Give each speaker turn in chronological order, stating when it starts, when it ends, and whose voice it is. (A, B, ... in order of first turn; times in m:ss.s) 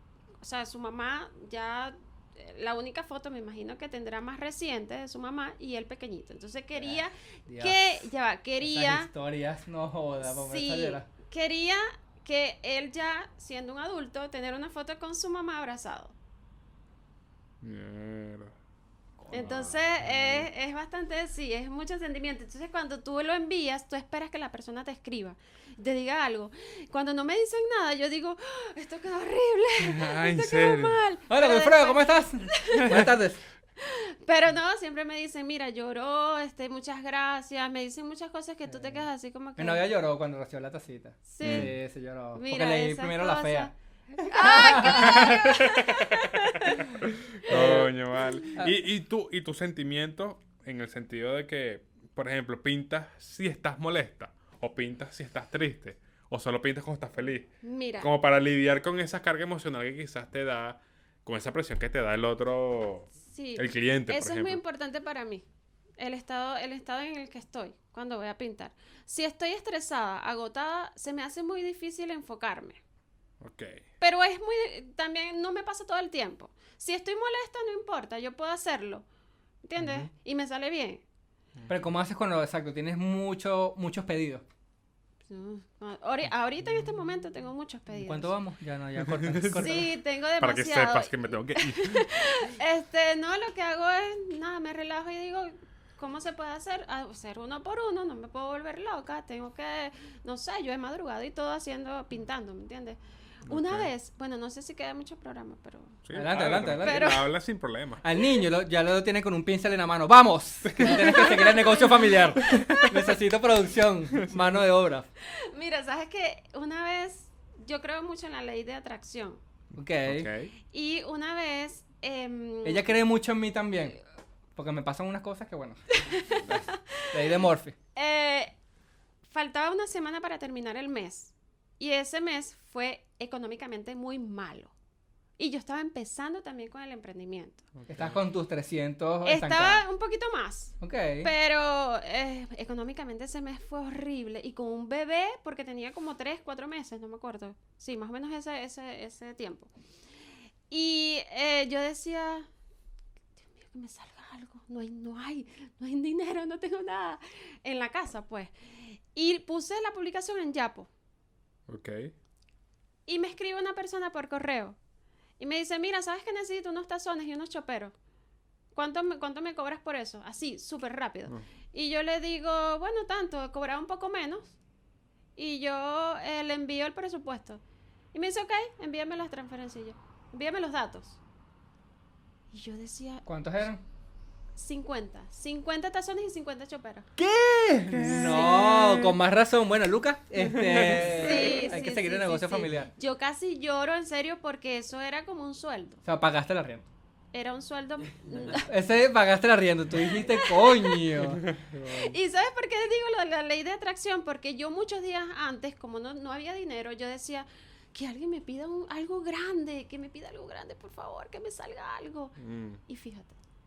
0:00.4-0:09.1 A
0:06.8-0:08.0 B
0:08.6-0:11.1 B
0:10.2-0:16.1 A
0:17.6-0:18.5 C
0:19.2-0:19.8 B
0:19.3-0:33.1 A
0:20.0-0:20.5 C
0:29.8-0:31.0 C
0:31.3-0:33.4 B
0:32.8-0:33.1 C
0:33.8-0:39.8 A
0:38.6-0:39.0 B
0:39.6-0:45.3 B
0:41.2-0:41.8 A
0:41.4-0:41.7 C
0:42.3-0:46.8 A
0:44.9-0:57.5 C
0:47.5-0:47.9 B
0:57.6-0:58.1 A
0:58.0-1:04.6 C
1:03.2-1:05.4 A
1:06.0-1:12.8 A
1:13.4-1:13.8 C
1:14.0-1:19.0 A
1:19.6-1:21.0 A
1:19.8-1:20.1 C
1:21.7-1:24.4 B
1:25.3-1:28.3 A
1:27.9-1:29.9 B
1:29.0-1:29.9 C
1:29.5-1:46.0 A
1:30.4-1:32.2 C
1:43.5-1:43.9 C
1:46.0-1:48.0 C
1:46.1-1:47.1 B
1:46.8-1:47.3 A
1:48.0-1:55.1 B
1:50.6-1:51.6 C
1:51.2-1:52.9 A
1:52.4-1:52.9 C
1:54.1-1:54.6 C
1:55.3-1:59.4 A
1:59.8-2:00.3 B
2:00.0-2:00.5 C
2:00.7-2:02.9 A
2:02.6-2:04.0 B
2:04.6-2:07.8 B
2:06.0-2:07.3 A
2:07.9-2:08.5 A
2:09.3-2:14.7 A
2:15.4-2:17.7 A
2:17.8-2:19.8 B
2:19.2-2:29.7 A
2:20.8-2:21.3 B
2:30.7-2:32.5 A
2:33.4-2:40.9 A
2:41.7-2:42.1 C
2:43.1-2:44.8 A
2:45.4-2:47.9 A
2:48.7-2:54.5 A
2:55.4-2:57.6 A
2:58.1-3:01.2 A
3:02.5-3:03.2 A
3:03.2-3:03.8 B
3:04.6-3:07.1 A
3:07.2-3:12.9 B
3:07.9-3:08.7 C
3:08.0-3:09.1 A
3:10.4-3:11.3 C
3:11.1-3:16.0 A
3:16.0-3:16.8 B
3:17.3-3:18.7 A
3:18.5-3:21.4 B
3:20.0-3:21.2 A
3:21.2-3:22.2 C
3:21.8-3:33.3 A
3:32.4-3:32.8 C